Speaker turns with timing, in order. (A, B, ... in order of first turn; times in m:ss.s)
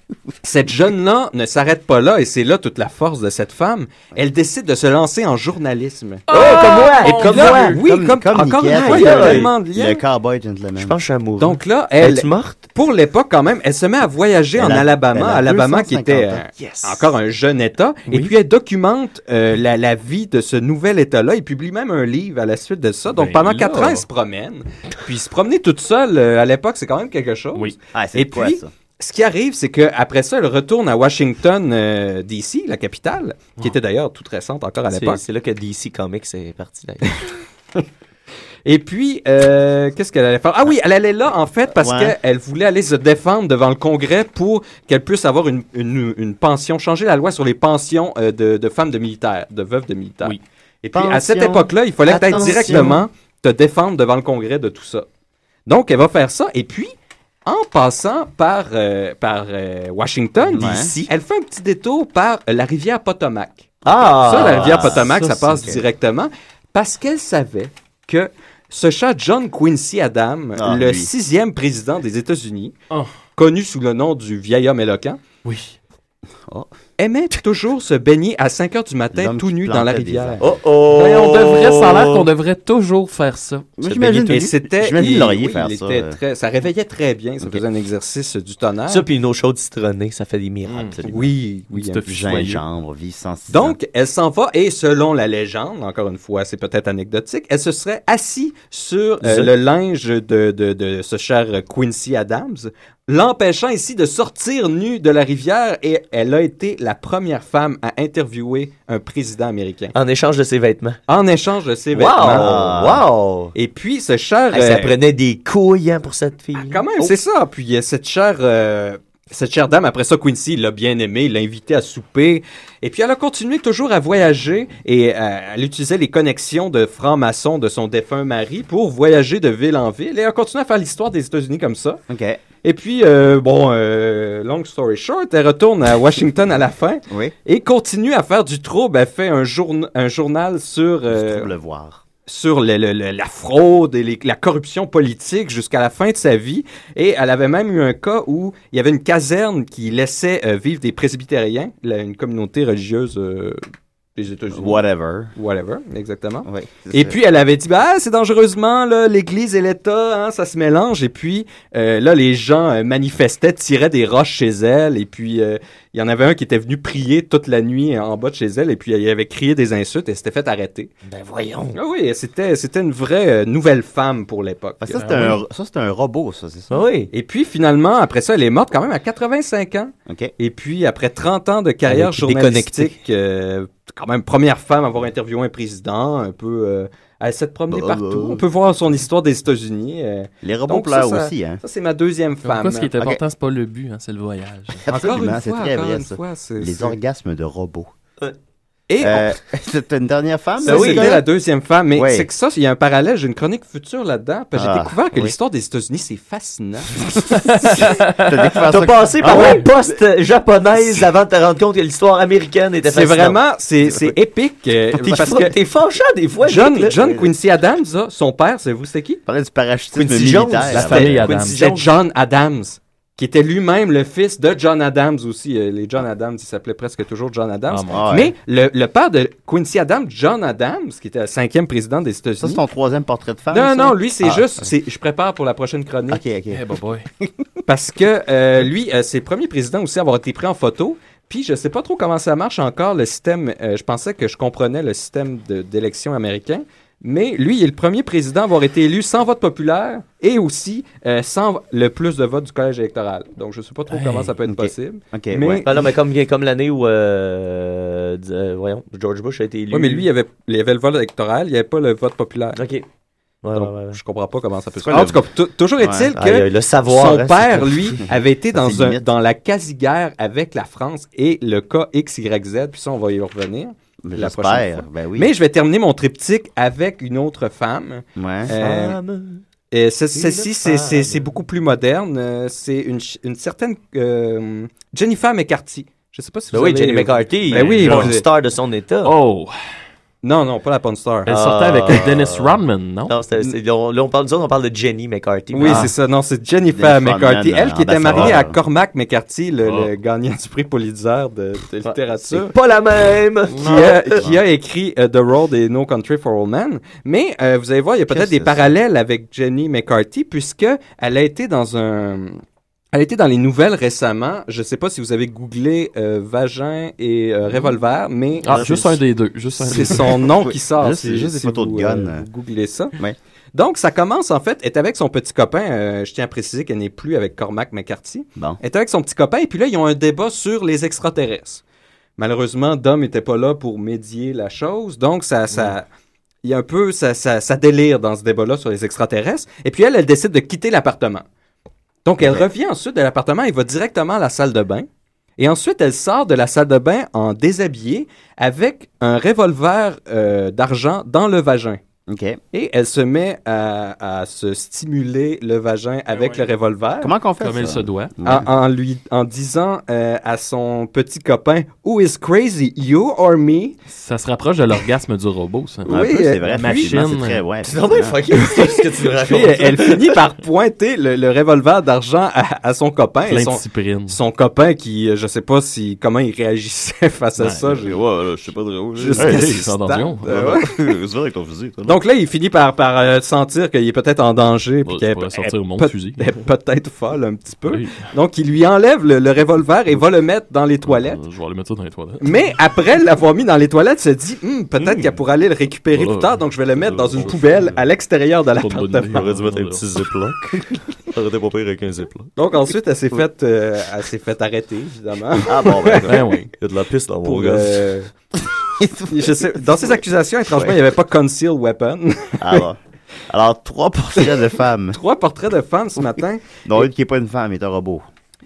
0:00.4-0:10.0 A
0:06.3-0:07.8 B
0:06.3-0:07.8 C
0:07.8-0:11.0 D
0:08.7-0:09.5 C
0:10.8-0:12.6 C
0:11.4-0:35.2 A
0:14.6-0:16.4 D
0:16.6-0:17.0 C
0:23.1-0:24.1 B
0:27.9-0:28.7 D
0:34.9-0:37.2 C
0:38.6-0:55.1 A
0:41.7-0:42.1 D
0:50.9-0:53.0 D
0:52.1-0:53.0 C
0:55.7-0:56.9 A
0:57.4-1:03.7 A
1:00.5-1:01.1 C
1:00.5-1:00.9 D
1:03.8-1:05.0 C
1:04.0-1:05.0 D
1:04.2-1:12.7 A
1:04.3-1:05.6 B
1:05.6-1:05.8 D
1:10.6-1:11.1 D
1:13.4-1:15.2 A
1:15.4-1:15.8 B
1:17.0-1:20.4 A
1:19.1-1:20.4 D
1:20.4-1:22.3 C
1:21.0-1:23.7 B
1:23.8-1:26.2 D
1:23.9-1:24.2 C
1:24.0-1:29.0 A
1:28.9-1:31.0 C
1:30.7-1:31.0 B
1:31.0-1:31.3 D
1:31.0-1:32.0 A
1:31.7-1:32.6 B
1:32.1-1:33.8 D
1:33.5-1:50.0 A
1:39.2-1:39.5 C
1:50.0-1:51.0 C
1:51.1-1:52.5 A
1:51.9-1:53.1 C
1:52.3-1:53.5 D
1:53.6-1:54.9 A
1:54.5-1:56.8 C
1:56.6-2:12.0 A
2:12.1-2:12.4 D
2:12.6-2:21.5 A
2:21.1-2:22.0 D
2:22.3-2:33.6 A
2:34.2-2:34.8 A
2:34.5-2:35.3 D
2:35.4-2:50.9 A
2:36.4-2:37.2 D
2:51.0-2:51.8 C
2:51.7-2:55.2 A
2:54.8-2:56.7 D
2:54.9-2:55.4 B
2:56.7-2:57.1 C
2:57.1-3:12.9 A
3:00.1-3:00.3 D
3:01.9-3:03.0 C
3:07.7-3:08.4 D
3:10.4-3:11.6 D
3:12.4-3:14.8 B
3:14.9-3:17.0 A
3:14.9-3:17.9 D
3:18.9-3:19.4 A
3:19.0-3:21.2 D
3:20.6-3:26.9 A
3:20.6-3:21.2 C
3:22.0-3:22.3 D
3:24.6-3:25.3 D
3:27.3-3:28.4 B
3:27.7-3:29.4 D
3:28.7-3:33.4 C
3:29.2-3:29.6 B
3:32.8-3:35.6 A
3:33.9-3:34.2 D
3:35.0-3:37.1 C
3:36.4-3:39.2 A
3:39.3-3:41.2 D
3:39.9-3:41.9 C
3:40.6-3:52.6 A
3:40.8-3:41.6 B
3:47.7-3:48.1 B
3:47.9-3:48.3 D
3:52.4-3:54.5 D
3:53.5-3:56.2 A
3:56.1-3:56.7 D
3:56.5-3:57.1 B
3:57.2-3:57.5 D
3:57.7-4:15.7 A
4:13.9-4:14.3 B
4:14.5-4:15.6 D
4:15.6-4:20.1 C
4:19.7-4:22.6 A
4:22.6-4:22.8 C
4:23.4-4:24.0 C
4:23.5-4:39.0 A
4:24.8-4:25.2 D
4:25.8-4:26.1 D
4:26.1-4:28.0 C
4:27.0-4:27.5 D
4:28.1-4:29.1 D
4:34.0-4:35.3 D
4:38.2-4:38.5 D
4:38.6-4:39.4 C
4:39.7-4:48.2 A
4:40.1-4:41.3 C
4:46.5-4:49.1 C
4:47.8-4:48.1 B
4:49.0-4:49.8 B
4:50.2-4:51.3 A
4:51.2-4:53.2 B
4:51.3-4:52.6 C
4:53.1-4:55.9 C
4:55.5-5:02.5 A
4:56.8-4:58.6 D
4:59.6-4:59.9 B
5:01.8-5:04.3 C
5:03.6-5:12.4 A
5:08.1-5:08.7 D
5:12.9-5:18.9 A
5:18.4-5:20.1 B
5:18.5-5:19.0 D
5:19.6-5:23.0 A
5:20.4-5:22.3 D
5:23.5-5:31.6 A
5:32.2-5:35.9 A
5:36.4-5:41.2 A
5:42.0-5:44.9 A
5:42.2-5:42.5 D
5:45.4-5:51.8 A
5:52.1-5:52.4 D
5:52.5-5:57.1 A
5:56.1-5:56.5 B
5:57.0-5:58.5 D
5:57.4-5:58.1 B
5:58.2-6:03.8 A
6:03.9-6:07.4 B
6:05.9-6:07.0 A
6:05.9-6:08.2 D
6:07.6-6:10.2 C
6:08.4-6:18.0 A
6:13.3-6:14.2 B
6:17.4-6:17.8 B
6:17.8-6:19.7 D
6:19.0-6:20.8 A
6:19.2-6:20.3 B
6:20.3-6:22.0 D
6:21.8-6:31.2 A
6:24.8-6:26.4 B
6:27.7-6:28.1 B
6:30.8-6:32.3 B
6:32.2-6:39.3 A
6:34.8-6:35.2 C
6:35.9-6:36.4 B
6:36.9-6:37.6 C
6:37.2-6:37.7 B
6:38.6-6:39.8 B
6:39.1-6:42.3 C
6:42.4-6:46.2 A
6:45.5-6:46.1 D
6:46.1-6:46.5 B
6:46.6-6:47.8 C
6:47.2-6:48.1 A
6:48.8-6:50.0 D
6:49.1-6:52.6 A
6:52.4-6:52.8 D
6:53.3-6:55.0 D
6:54.9-6:56.9 A
6:56.6-6:58.0 D